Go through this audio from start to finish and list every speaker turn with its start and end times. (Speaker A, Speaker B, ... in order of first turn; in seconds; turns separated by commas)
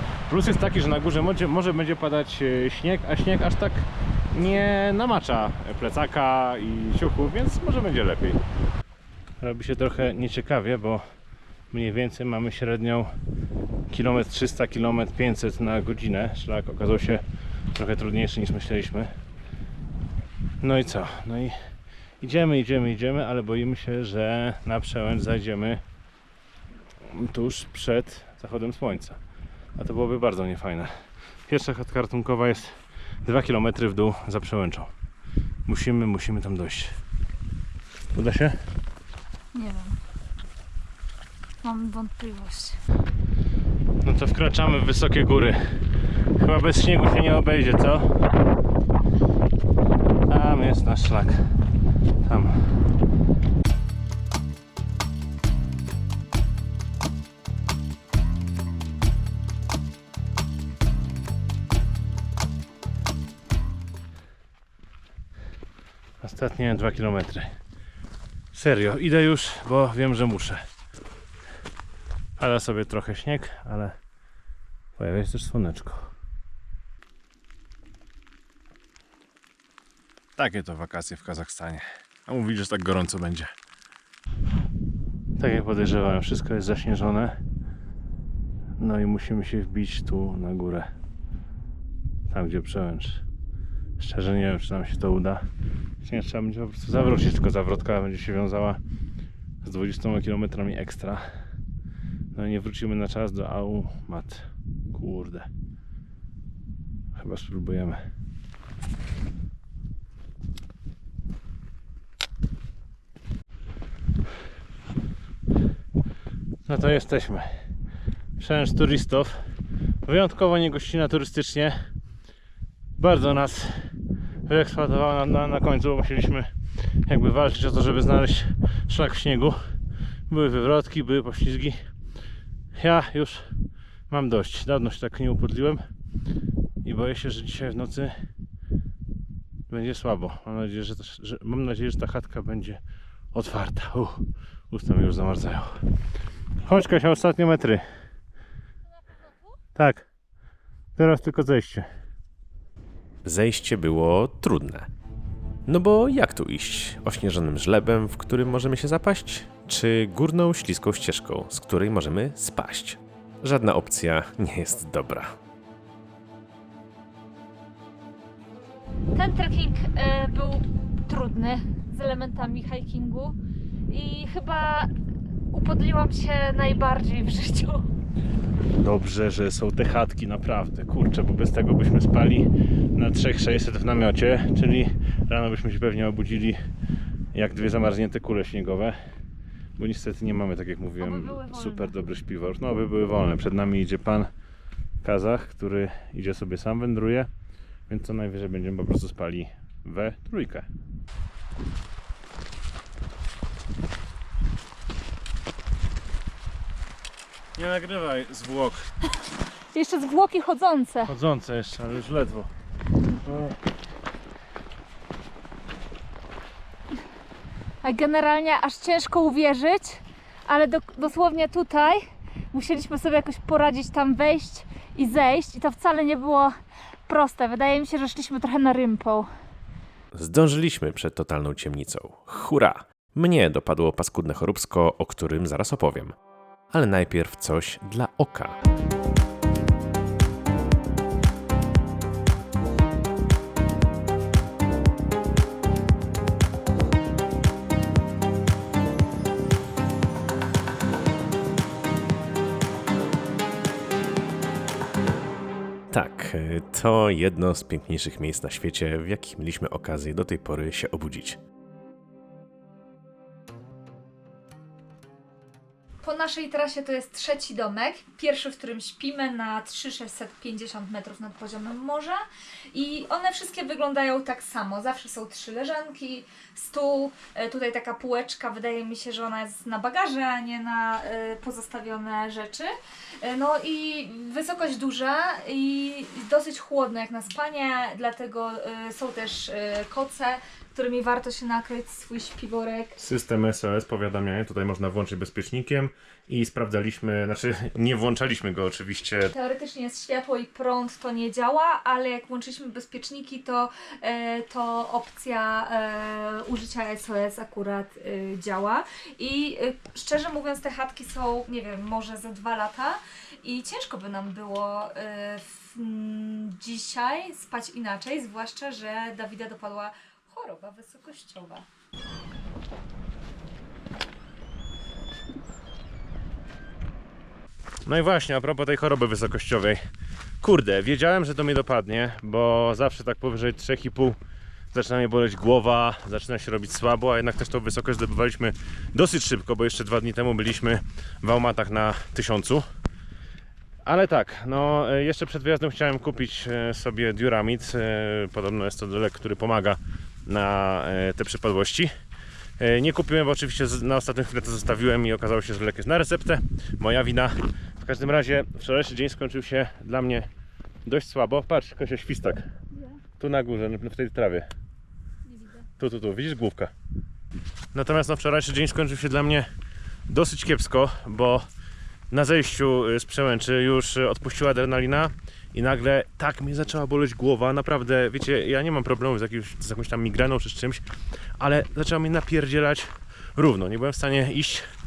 Speaker A: 0.3-8.4, Speaker A: 9.4-11.1, Speaker A: 11.7-13.1, Speaker A: 13.9-19.1, Speaker A: 20.6-21.7, Speaker A: 22.2-25.8, Speaker A: 27.1-29.2, Speaker A: 29.8-30.9, Speaker A: 31.5-34.9, Speaker A: 35.7-37.0, Speaker A: 38.1-38.6, Speaker B: 39.5-40.0, Speaker B: 41.6-42.8, Speaker A: 44.0-45.8, Speaker A: 46.4-48.2, Speaker A: 50.3-51.6, Speaker A: 52.2-52.7, Speaker A: 66.2-67.5, Speaker A: 68.5-70.6, Speaker A: 72.4-74.0, Speaker A: 75.0-76.1, Speaker A: 80.4-83.5, Speaker A: 85.4-87.4, Speaker A: 88.8-90.9, Speaker A: 92.3-93.2, Speaker A: 94.0-95.5, Speaker A: 96.0-98.8, Speaker A: 99.6-101.3, Speaker A: 102.3-105.5, Speaker A: 107.2-108.0, Speaker A: 116.7-117.6, Speaker A: 118.4-119.4, Speaker A: 120.0-121.8, Speaker A: 123.0-123.9, Speaker A: 124.5-126.5, Speaker A: 127.0-129.6, Speaker A: 130.3-131.9, Speaker A: 132.7-133.5, Speaker A: 134.1-135.8, Speaker A: 136.8-138.3, Speaker A: 139.7-142.8, Speaker A: 143.3-145.8, Speaker A: 146.6-147.8, Speaker A: 149.8-150.1, Speaker A: 151.0-151.9, Speaker C: 153.2-154.9, Speaker C: 155.7-165.3, Speaker B: 169.2-173.4, Speaker B: 173.9-174.9, Speaker B: 175.5-177.9, Speaker A: 178.8-186.6, Speaker A: 187.3-189.0, Speaker A: 189.8-194.3, Speaker B: 191.0-191.9, Speaker A: 195.0-197.3, Speaker A: 197.9-200.7, Speaker A: 207.6-208.9, Speaker B: 209.7-211.2, Speaker A: 211.1-212.5, Speaker B: 217.8-226.6, Speaker B: 227.1-229.3, Speaker C: 230.1-236.2, Speaker C: 236.7-238.6, Speaker C: 255.9-261.4, Speaker B: 266.0-293.0, Speaker A: 293.0-299.3, Speaker B: 299.3-321.7, Speaker A: 327.9-329.8, Speaker A: 330.4-334.2, Speaker A: 334.7-342.6, Speaker A: 343.9-351.9, Speaker A: 352.6-360.3, Speaker A: 360.9-362.4, Speaker B: 362.7-363.0, Speaker A: 363.2-364.5, Speaker B: 365.3-365.7, Speaker A: 365.8-366.7, Speaker A: 367.7-369.5, Speaker A: 370.1-371.4, Speaker A: 372.1-380.8, Speaker A: 381.4-384.7